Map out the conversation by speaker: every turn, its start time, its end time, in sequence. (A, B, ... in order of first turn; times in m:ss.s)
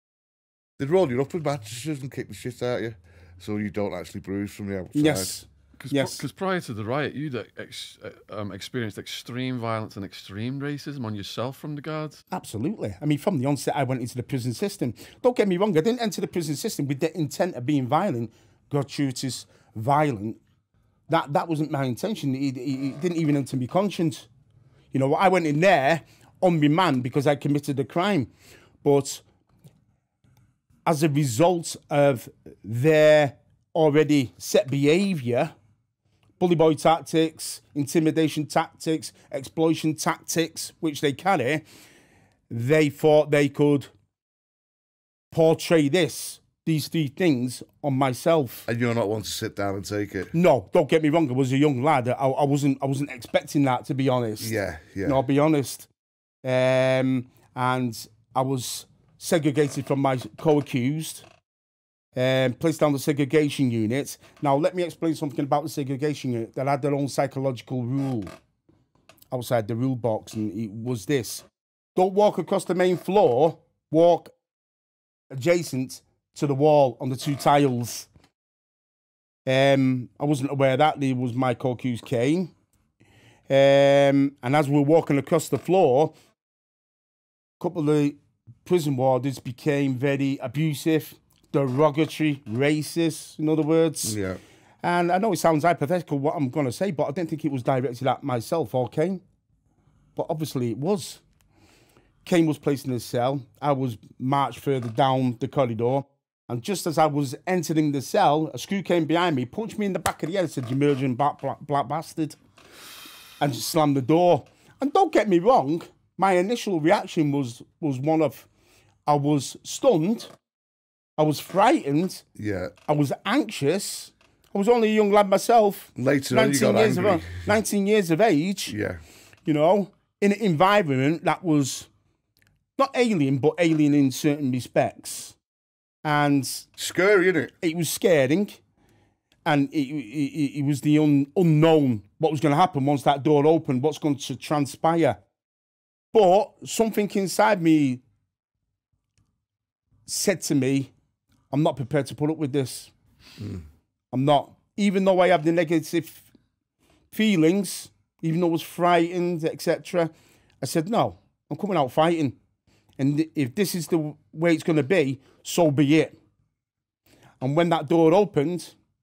0:00.8-0:05.3 A
0:04.9-0:06.2 B
0:05.8-0:12.2 C
0:12.3-0:20.4 B
0:21.1-0:24.3 B
0:24.9-0:29.2 B
0:30.8-0:35.5 B
0:36.4-0:41.6 B
0:42.5-0:43.9 B
0:45.3-0:48.7 B
0:48.7-0:50.3 A
0:50.3-0:55.9 B
0:54.4-0:55.2 A
0:56.4-1:01.2 B
1:02.1-1:08.3 B
1:09.3-1:14.3 B
1:15.3-1:18.1 B
1:19.4-1:22.5 B
1:23.5-1:26.1 B
1:27.6-1:34.2 B
1:34.0-1:34.4 A
1:34.8-1:39.2 B
1:40.2-1:41.2 B
1:42.2-1:52.4 B
1:53.4-1:58.5 B
1:59.0-2:00.3 B
2:01.2-2:02.2 B
2:02.4-2:02.7 A
2:02.9-2:08.8 B
2:06.0-2:07.4 A
2:08.7-2:09.0 A
2:09.4-2:11.9 B
2:12.8-2:15.4 B
2:16.0-2:16.7 B
2:16.8-2:17.5 A
2:17.6-2:18.6 B
2:19.4-2:25.2 B
2:26.1-2:28.0 B
2:30.0-2:30.9 B
2:31.5-2:32.9 B
2:34.1-2:36.3 B
2:37.1-2:42.3 B
2:43.0-2:46.1 B
2:47.4-2:48.7 B